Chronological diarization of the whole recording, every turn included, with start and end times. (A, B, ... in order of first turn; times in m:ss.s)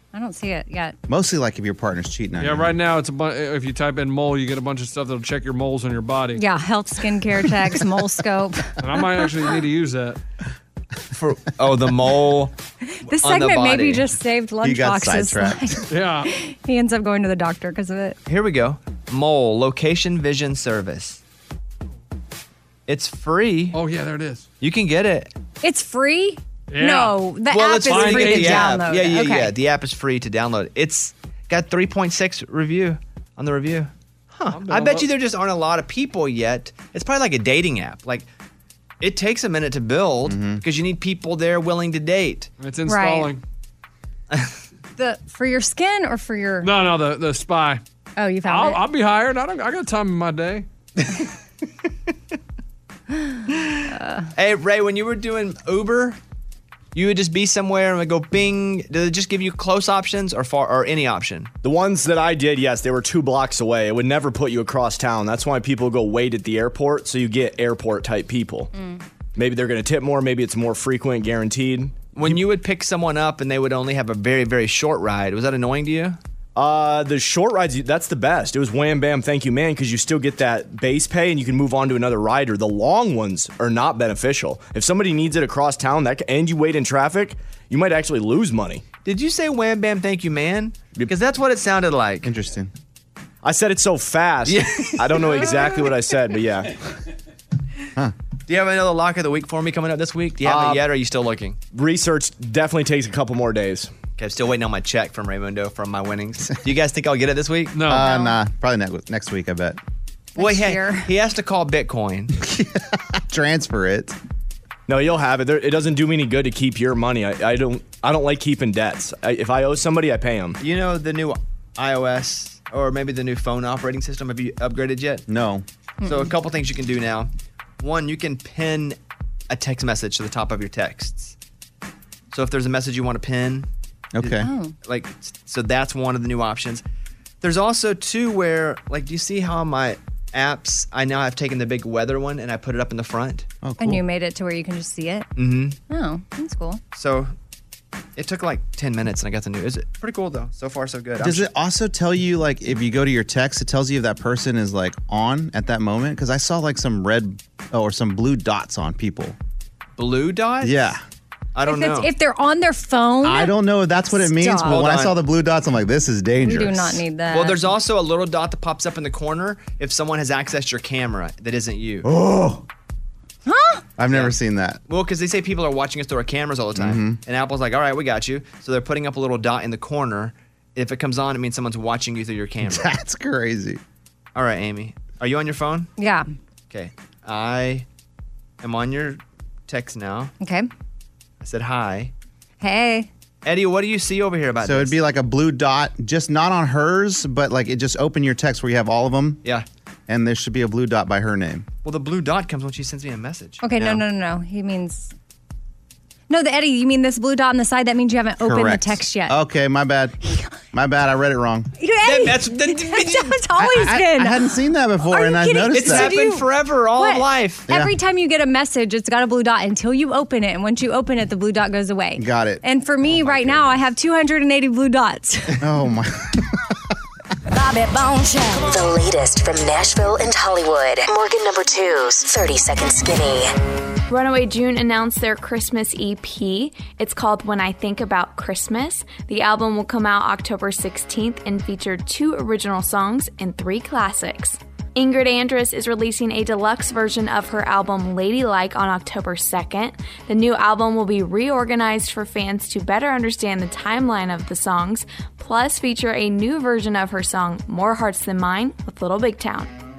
0:00.1-0:01.0 A
0:01.1-0:02.7 B
0:02.4-0:06.4 C
0:06.4-0:09.0 A
0:08.8-0:10.2 C
0:11.1-0:12.5 D
0:12.9-0:18.2 A
0:13.1-0:14.1 D
0:14.6-0:15.8 B
0:15.9-0:16.3 C
0:18.3-0:21.2 D
0:22.9-0:23.8 D
0:23.7-0:24.4 C
0:24.6-0:25.3 D
0:25.6-0:29.5 A
0:26.7-0:27.2 C
0:27.5-0:38.2 D
0:27.8-0:28.7 C
0:34.5-0:35.1 C
0:39.0-0:42.5 D
0:40.2-0:40.6 B
0:42.6-0:43.4 C
0:42.9-0:43.3 A
0:44.3-0:44.6 D
0:45.0-0:46.7 A
0:46.6-0:47.8 C
0:48.2-0:48.8 A
0:48.4-0:50.6 C
0:53.3-0:54.3 A
0:54.4-0:56.2 D
0:56.9-1:01.5 D
1:01.6-1:08.7 E
1:08.7-1:09.0 A
1:09.4-1:12.4 E
1:12.1-1:16.2 D
1:16.5-1:28.8 E
1:29.0-1:32.3 D
1:32.2-1:32.7 B
1:33.4-1:36.7 E
1:34.4-1:35.8 D
1:38.5-1:41.6 D
1:40.4-1:40.8 E
1:41.7-1:43.9 E
1:44.2-1:47.8 D
1:47.7-1:48.1 C
1:47.9-1:49.8 B
1:47.9-1:48.4 A
1:50.4-1:51.1 A
1:50.4-1:52.3 D
1:52.4-1:54.2 B
1:54.9-2:00.6 E
2:00.6-2:05.2 D
2:05.3-2:05.6 B
2:06.0-2:06.3 A
2:06.0-2:09.0 D
2:09.5-2:11.4 D
2:12.3-2:13.7 D
2:14.1-2:14.5 B
2:14.2-2:16.8 D
2:14.4-2:14.7 A
2:17.4-2:23.5 D
2:23.6-2:24.0 B
2:23.8-2:25.3 A
2:25.4-2:25.8 D
2:25.9-2:26.8 A
2:26.9-2:27.3 D
2:28.2-2:31.5 D
2:31.2-2:39.4 B
2:40.0-2:41.0 D
2:40.6-2:41.0 B
2:41.5-2:42.1 D
2:41.6-2:43.5 A
2:43.2-2:47.0 B
2:44.1-2:44.8 A
2:44.7-2:45.1 D
2:46.4-2:47.7 A
2:47.3-2:52.1 D
2:52.0-2:52.6 B
2:53.4-2:53.8 A
2:54.0-2:54.8 B
2:54.9-3:02.9 D
2:56.8-2:57.2 B
3:02.6-3:03.8 B
3:04.3-3:05.9 D
3:06.0-3:06.3 A
3:06.7-3:07.8 D
3:08.6-3:10.3 D
3:10.4-3:10.7 A
3:11.4-3:12.1 D
3:12.6-3:13.1 A
3:13.4-3:15.0 D
3:14.6-3:19.4 B
3:20.1-3:21.6 B
3:21.8-3:23.6 D
3:23.6-3:25.1 A
3:26.3-3:29.3 A
3:28.4-3:30.2 B
3:30.7-3:31.7 B
3:31.8-3:34.4 A
3:32.0-3:33.3 D
3:33.6-3:36.2 B
3:35.0-3:36.4 A
3:35.7-3:37.6 D
3:37.0-3:45.6 A
3:37.7-3:37.9 B
3:42.2-3:43.6 B
3:45.6-3:46.8 B
3:47.6-3:53.5 F
3:54.1-4:19.7 G